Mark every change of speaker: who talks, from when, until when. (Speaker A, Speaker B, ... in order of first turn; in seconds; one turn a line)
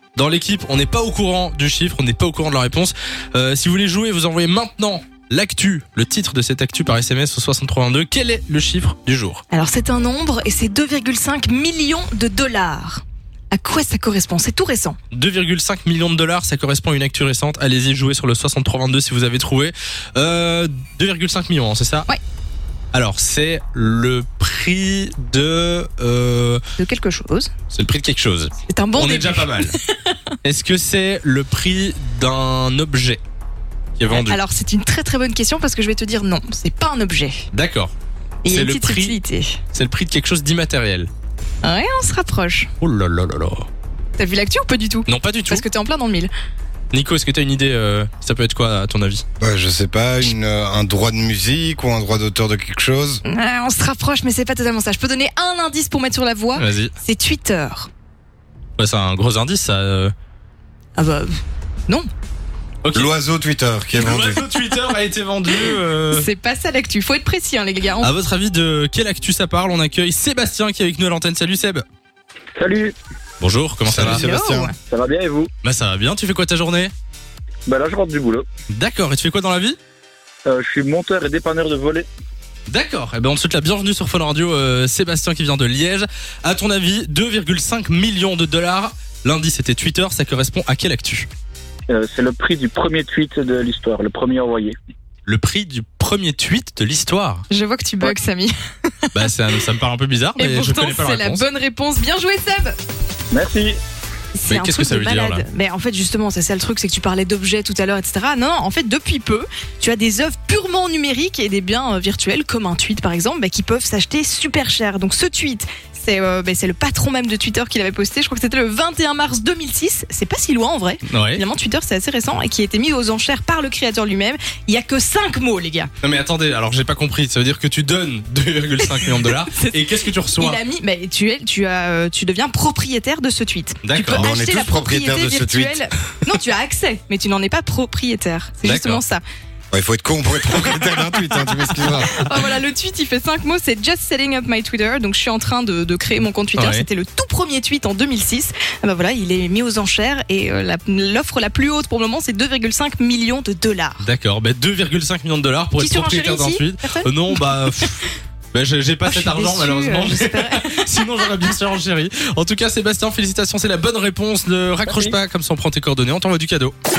Speaker A: 0.2-9.4
Speaker B: 9.5-15.0
Speaker A: 15.1-22.1
Speaker A: 22.9-26.6
Speaker B: 26.8-27.5
Speaker A: 27.7-29.7
Speaker B: 28.7-30.2
Speaker A: 30.4-33.2
Speaker A: 34.0-34.4
Speaker B: 34.1-37.5
Speaker A: 37.5-37.9
Speaker B: 38.5-39.6
Speaker A: 38.5-39.2
Speaker A: 39.7-41.1
Speaker B: 41.6-42.7
Speaker A: 42.8-43.7
Speaker B: 44.2-46.3
Speaker A: 45.1-45.6
Speaker A: 46.9-49.2
Speaker C: 49.4-53.2
Speaker B: 53.2-57.9
Speaker A: 56.6-56.9
Speaker A: 58.8-60.1
Speaker B: 61.0-62.1
Speaker A: 62.8-63.1
Speaker C: 62.9-64.4
Speaker A: 64.0-66.3
Speaker B: 66.1-68.1
Speaker A: 68.0-71.8
Speaker D: 72.6-72.9
Speaker A: 73.4-74.2
Speaker C: 73.8-74.7
Speaker B: 74.0-74.8
Speaker D: 74.9-75.5
Speaker A: 75.6-76.9
Speaker D: 77.7-78.5
Speaker A: 78.7-79.8
Speaker D: 80.5-82.1
Speaker A: 82.7-91.3
Speaker D: 91.9-94.8
Speaker A: 95.2-97.5
Speaker B: 97.5-98.5
Speaker B: 99.0-99.3
Speaker A: 99.1-101.5
Speaker B: 100.4-102.8
Speaker D: 103.3-103.8
Speaker B: 104.3-125.9
Speaker A: 104.5-105.5
Speaker A: 121.1-121.4
Speaker A: 126.0-130.6
Speaker B: 128.8-139.2
Speaker A: 133.8-134.3
Speaker C: 134.1-135.8
Speaker A: 138.6-139.0
Speaker C: 139.7-142.2
Speaker B: 141.8-154.0
Speaker A: 146.5-146.9
Speaker A: 154.0-166.7
Speaker B: 155.8-157.6
Speaker B: 159.1-160.9
Speaker D: 164.8-165.2